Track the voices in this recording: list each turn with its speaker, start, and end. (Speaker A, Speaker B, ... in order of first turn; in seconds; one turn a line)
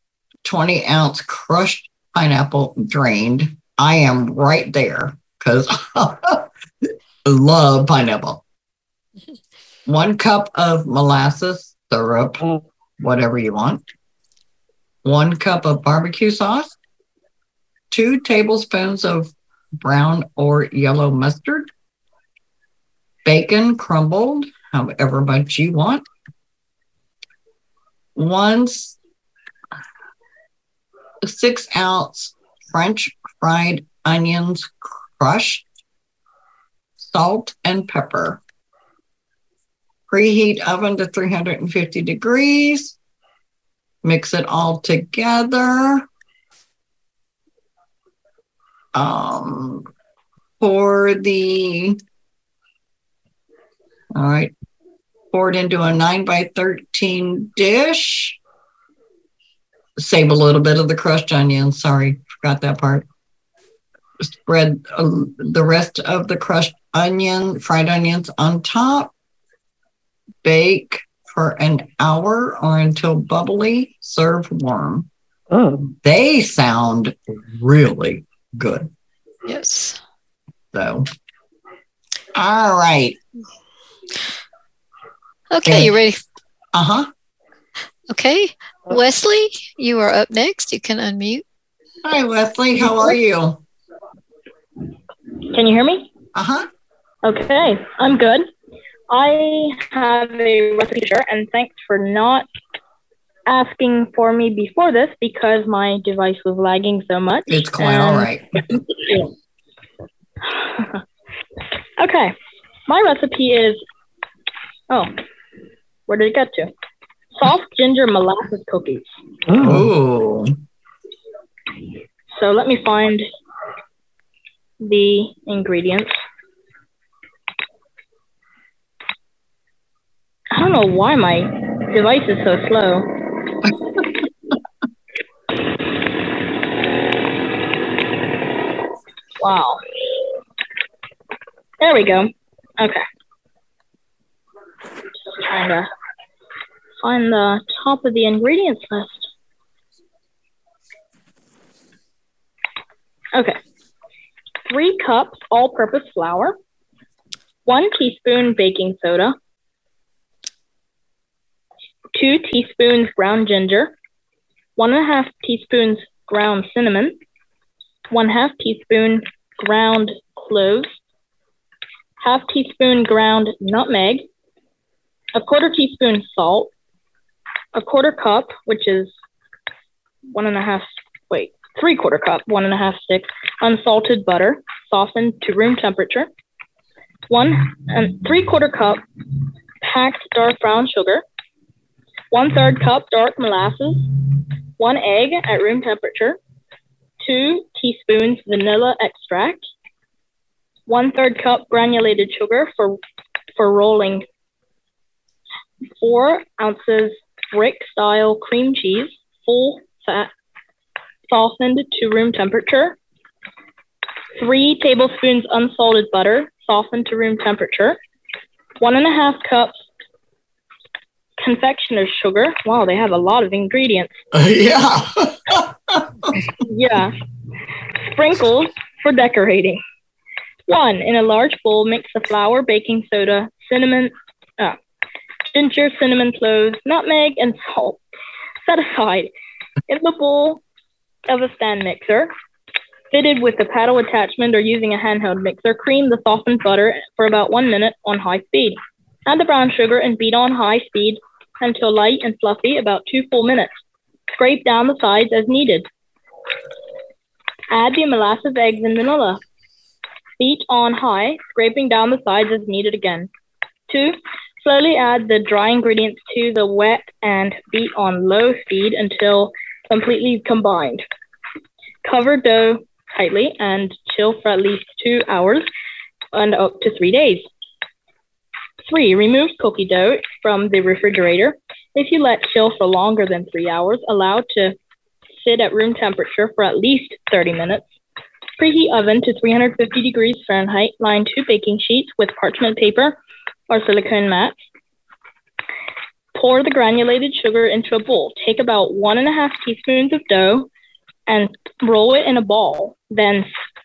Speaker A: 0.4-6.5
Speaker A: 7.2-8.4
Speaker A: 9.8-12.4
Speaker A: 13.0-13.8
Speaker A: 15.0-16.8
Speaker A: 17.9-21.7
Speaker A: 23.2-26.1
Speaker A: 28.1-29.0
Speaker A: 31.2-35.6
Speaker A: 37.0-38.4
Speaker A: 40.1-43.0
Speaker A: 44.0-46.1
Speaker A: 48.9-49.9
Speaker A: 50.6-52.0
Speaker A: 54.1-54.5
Speaker A: 55.3-58.4
Speaker A: 60.0-63.1
Speaker A: 64.2-69.1
Speaker A: 70.4-75.1
Speaker A: 76.0-78.9
Speaker B: 79.5-80.0
Speaker A: 80.7-81.1
Speaker A: 82.3-83.2
Speaker B: 85.5-86.2
Speaker A: 85.6-85.9
Speaker A: 86.7-87.1
Speaker B: 88.1-91.4
Speaker A: 92.0-93.6
Speaker C: 95.5-96.1
Speaker A: 96.3-96.7
Speaker C: 97.2-98.5
Speaker C: 99.1-102.5
Speaker C: 103.5-108.3
Speaker A: 107.5-108.5
Speaker C: 110.5-111.0
Speaker C: 112.0-112.3
Speaker C: 112.9-113.8
Speaker C: 116.1-116.7
Speaker C: 117.4-119.1
Speaker A: 119.6-120.5
Speaker C: 122.3-123.2
Speaker C: 124.8-126.1
Speaker C: 130.5-133.1
Speaker C: 139.4-139.8
Speaker C: 141.8-143.0
Speaker C: 145.3-145.9
Speaker C: 147.0-149.3
Speaker C: 154.7-156.6
Speaker C: 157.7-159.3
Speaker C: 162.1-163.9
Speaker C: 164.8-167.2
Speaker C: 168.1-170.9
Speaker C: 172.2-174.2
Speaker C: 175.3-176.7
Speaker C: 177.7-179.1
Speaker C: 180.3-186.3
Speaker C: 187.3-189.0
Speaker C: 189.8-191.2
Speaker C: 192.3-194.2
Speaker C: 194.8-196.4
Speaker C: 197.2-199.6
Speaker C: 200.9-203.0
Speaker C: 203.6-204.2
Speaker C: 206.0-210.3
Speaker C: 211.3-213.0
Speaker C: 214.3-218.0
Speaker C: 218.8-219.8
Speaker C: 221.4-224.1
Speaker A: 224.3-226.4
Speaker C: 226.7-227.2
Speaker C: 228.1-229.8
Speaker C: 230.7-234.8
Speaker C: 235.4-238.0
Speaker C: 238.6-239.3
Speaker C: 239.9-240.6
Speaker C: 241.3-242.3
Speaker C: 243.1-253.7
Speaker C: 254.3-255.9
Speaker C: 257.7-259.4
Speaker C: 260.4-263.3
Speaker C: 263.9-271.0
Speaker C: 272.0-275.7
Speaker C: 276.3-277.4
Speaker C: 278.8-284.8
Speaker C: 285.4-287.9
Speaker C: 288.6-293.2
Speaker C: 293.7-294.6
Speaker C: 296.3-300.7
Speaker C: 301.3-303.5